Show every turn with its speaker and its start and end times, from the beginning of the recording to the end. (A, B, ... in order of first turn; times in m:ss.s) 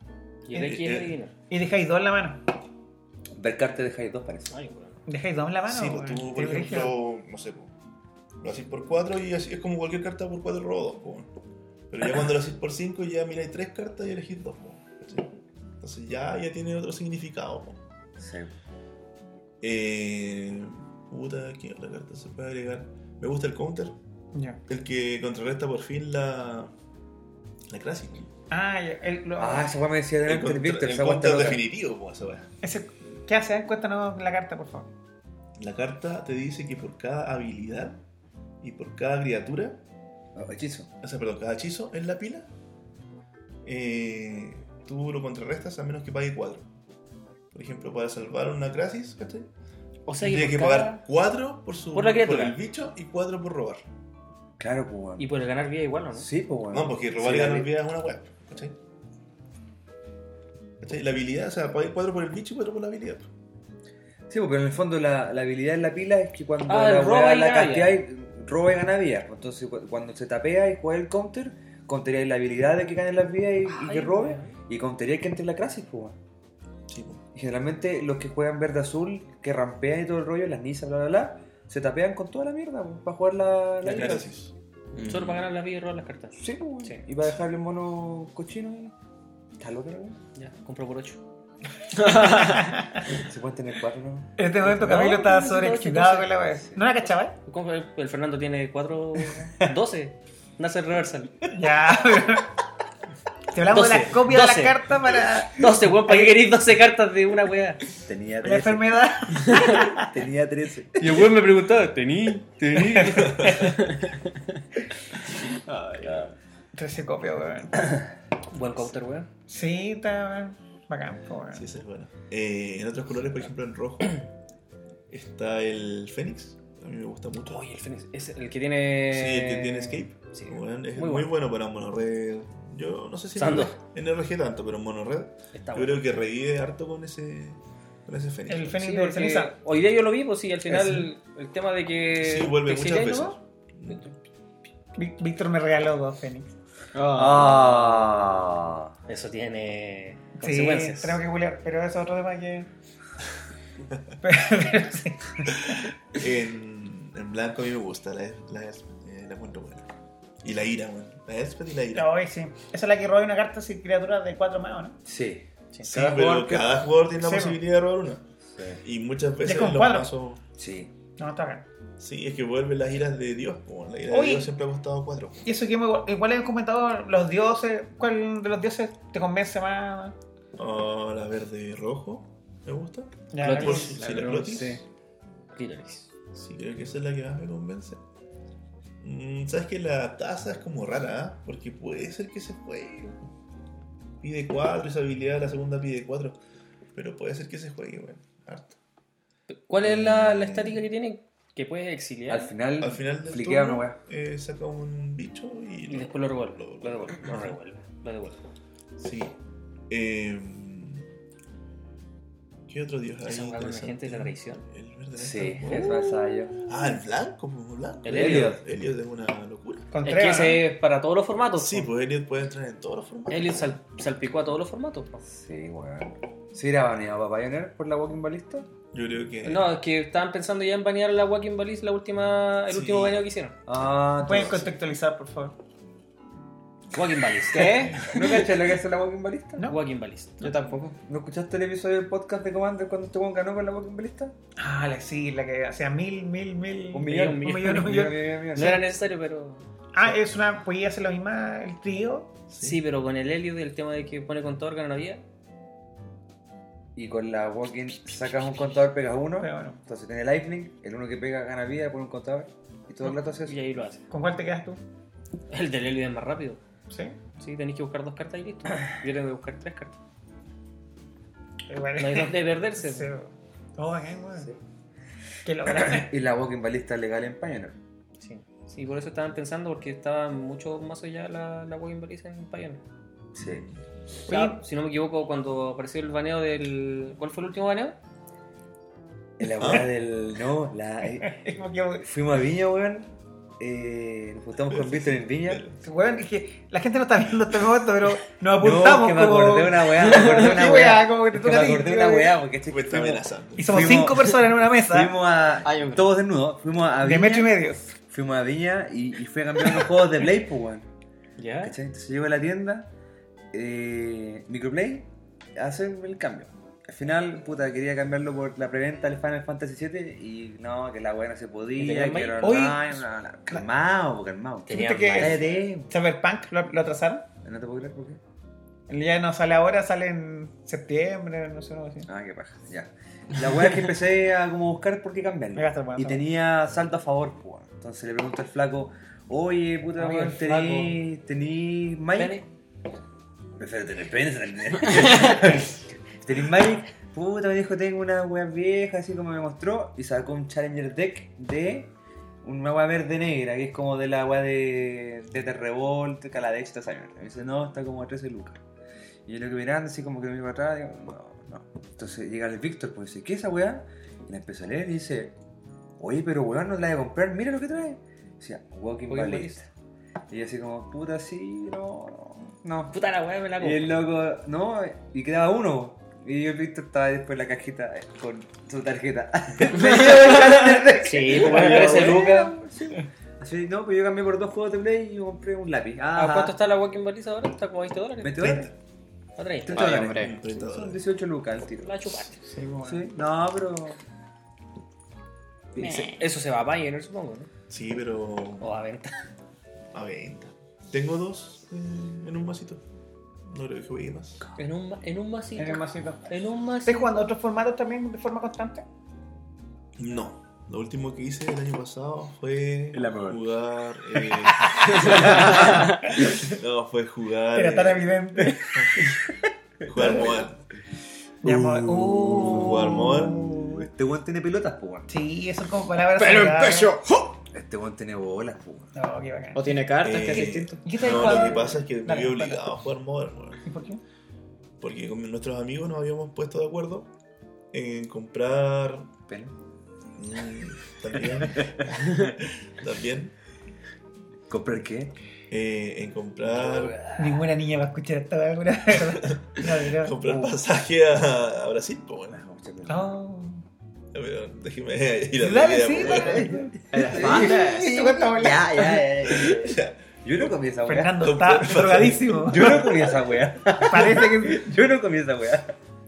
0:00.5-0:01.3 A
0:00.5-0:01.1 B
0:01.5-0:02.4 C
0:03.3-0:04.6 D
0:04.5-0:05.0 A
0:05.1-0:06.9 C
0:05.7-0:07.7 B
0:08.4-0:11.3 B
0:11.9-0:17.8 B
0:18.2-0:18.5 D
0:19.6-0:23.9 B
0:24.3-0:24.6 C
0:24.7-0:26.7 B
0:27.7-0:28.3 B
0:28.5-0:29.7 C
0:29.4-0:31.6 D
0:30.2-0:32.5 B
0:32.6-0:34.9 C
0:35.6-0:38.0 B
0:38.6-0:39.8 B
0:40.4-0:40.9 D
0:41.0-0:42.5 B
0:43.6-0:46.6 B
0:47.5-0:49.5 B
0:50.1-0:51.0 A
0:50.2-0:53.8 B
0:51.9-0:52.6 A
0:54.6-0:55.3 D
0:55.2-0:56.3 A
0:56.1-0:57.7 D
0:56.7-0:58.8 B
1:00.8-1:03.3 B
1:04.3-1:16.2 D
1:06.7-1:08.0 A
1:13.6-1:14.5 A
1:16.9-1:17.2 B
1:17.3-1:24.3 D
1:23.8-1:25.3 B
1:23.9-1:24.2 A
1:25.0-1:25.4 D
1:25.0-1:27.0 A
1:26.4-1:28.9 D
1:29.6-1:30.2 D
1:30.3-1:31.2 A
1:32.0-1:32.4 E
1:32.2-1:33.0 C
1:33.1-1:34.3 D
1:34.4-1:37.3 C
1:34.6-1:36.3 A
1:37.5-1:41.4 A
1:41.5-1:42.5 C
1:43.5-1:46.4 C
1:43.7-1:44.8 A
1:45.5-1:47.8 A
1:48.0-1:48.9 D
1:48.4-1:50.1 C
1:49.9-1:51.2 D
1:51.0-1:54.1 A
1:52.8-1:53.3 C
1:53.2-1:53.6 B
1:55.4-1:56.3 E
1:56.8-1:57.9 C
1:58.5-1:59.3 A
1:59.5-2:01.6 C
2:01.5-2:04.2 B
2:05.1-2:07.6 B
2:07.4-2:11.3 A
2:09.1-2:18.8 B
2:13.4-2:13.8 A
2:15.5-2:16.1 A
2:18.5-2:19.5 C
2:18.8-2:23.4 A
2:22.2-2:24.1 B
2:25.0-2:26.5 C
2:26.9-2:27.9 E
2:27.1-2:28.9 D
2:29.1-2:31.2 A
2:30.4-2:32.7 C
2:34.2-2:35.6 C
2:35.7-2:39.9 B
2:40.4-2:42.1 B
2:41.9-2:45.0 C
2:45.0-2:46.7 D
2:45.8-2:48.2 B
2:47.2-2:47.6 C
2:48.5-2:48.8 D
2:48.8-2:50.4 B
2:49.4-2:50.1 C
2:50.6-2:50.9 D
2:51.2-2:51.6 C
2:52.0-2:55.4 B
2:54.1-2:54.5 C
2:55.4-3:00.1 C
3:00.6-3:04.8 B
3:03.3-3:04.0 C
3:03.4-3:04.6 A
3:04.3-3:04.8 D
3:05.5-3:06.1 A
3:06.3-3:08.0 B
3:09.0-3:13.2 B
3:14.2-3:16.4 B
3:16.9-3:18.8 B
3:19.5-3:22.5 A
3:19.8-3:20.8 B
3:22.3-3:24.0 D
3:22.8-3:27.6 B
3:25.9-3:28.4 A
3:29.0-3:29.4 B
3:29.9-3:31.0 B
3:32.7-3:39.9 B
3:33.2-3:34.6 A
3:35.2-3:36.6 D
3:38.0-3:38.6 A
3:38.1-3:38.6 D
3:39.9-3:40.6 C
3:40.0-3:41.9 A
3:41.6-3:43.8 B
3:43.3-3:45.2 A
3:45.2-3:48.7 D
3:48.9-3:49.7 B
3:49.4-3:53.5 A
3:52.7-3:53.2 B
3:53.6-3:54.7 D
3:54.2-3:55.5 C
3:56.9-3:58.4 A
3:57.5-3:58.1 E
3:58.0-3:59.7 D
3:59.7-4:00.6 A
4:00.4-4:00.9 E
4:01.0-4:04.3 D
4:04.6-4:08.8 C
4:06.9-4:08.8 D
4:07.0-4:09.6 A
4:09.9-4:12.3 C
4:12.5-4:12.8 B
4:12.6-4:15.2 A
4:17.0-4:23.6 D
4:19.4-4:19.8 C
4:23.0-4:24.0 A
4:24.1-4:24.8 C
4:25.5-4:26.6 A
4:26.9-4:27.2 C
4:27.4-4:29.9 A
4:31.7-4:34.5 C
4:32.0-4:33.1 A
4:35.4-4:36.1 C
4:35.7-4:37.8 D
4:38.2-4:42.8 A
4:43.3-4:43.6 D
4:43.4-4:43.7 B
4:44.3-4:48.0 A
4:44.3-4:44.6 C
4:49.4-4:51.4 D
4:49.6-4:49.9 B
4:51.2-4:52.0 C
4:52.0-4:55.6 D
4:54.7-4:55.8 B
4:55.8-5:02.3 C
4:58.6-5:10.9 D
5:02.7-5:03.9 B
5:03.6-5:05.2 C
5:05.6-5:06.0 A
5:07.0-5:07.8 C
5:11.4-5:11.7 A
5:11.6-5:12.9 D
5:13.5-5:25.9 D
5:21.8-5:22.6 A
5:22.4-5:23.0 C
5:24.7-5:25.6 A
5:24.7-5:27.2 C
5:27.4-5:28.2 D
5:28.9-5:32.1 C
5:32.0-5:42.4 D
5:35.5-5:36.2 C
5:40.0-5:41.0 A
5:42.2-5:42.4 A
5:43.6-5:51.9 D
5:52.4-5:58.6 D
5:59.2-6:05.3 D
6:06.0-6:09.6 D
6:09.1-6:09.6 A
6:10.3-6:12.9 D
6:12.9-6:14.0 A
6:13.6-6:26.6 D
6:19.7-6:22.5 A
6:21.6-6:22.5 C
6:26.1-6:28.5 A
6:28.2-6:28.7 D
6:28.4-6:28.7 B
6:29.4-6:30.2 A
6:29.6-6:32.2 D
6:29.7-6:30.3 E
6:30.1-6:31.0 B
6:31.8-6:32.4 A
6:32.5-6:33.0 C
6:32.8-6:34.0 D
6:35.8-6:36.2 D
6:35.8-6:36.1 E
6:35.8-6:37.5 A
6:37.7-6:38.7 B
6:38.6-6:39.1 A
6:39.9-6:42.8 B
6:43.5-6:44.4 B
6:44.6-6:47.2 A
6:45.6-6:46.3 C
6:46.8-6:48.8 C
6:50.0-6:58.2 B
6:52.9-6:53.6 D
6:54.9-6:56.3 D
6:57.5-6:58.8 C
6:58.7-6:59.1 B
6:59.8-7:00.6 B
6:59.9-7:00.4 D
7:01.4-7:03.8 C
7:01.4-7:05.1 D
7:02.3-7:03.5 B
7:05.1-7:07.0 C
7:06.2-7:06.8 A
7:07.4-7:08.9 D
7:08.9-7:09.8 C
7:09.5-7:10.9 E
7:10.0-7:13.6 B
7:10.8-7:12.7 C
7:13.6-7:14.0 C
7:14.8-7:17.1 B
7:17.7-7:19.1 B
7:19.3-7:19.5 D
7:20.2-7:23.3 B
7:21.4-7:21.7 D
7:24.5-7:25.1 D
7:25.5-7:27.0 B
7:26.4-7:27.4 D
7:27.2-7:30.5 C
7:29.0-7:32.4 B
7:32.3-7:33.2 D
7:32.9-7:33.6 C
7:34.1-7:36.6 B
7:35.4-7:39.0 C
7:35.9-7:41.5 D
7:36.9-7:37.9 E
7:39.2-7:40.5 B
7:40.8-7:43.0 C
7:41.2-7:42.9 B
7:42.4-7:45.8 D
7:43.7-7:44.6 C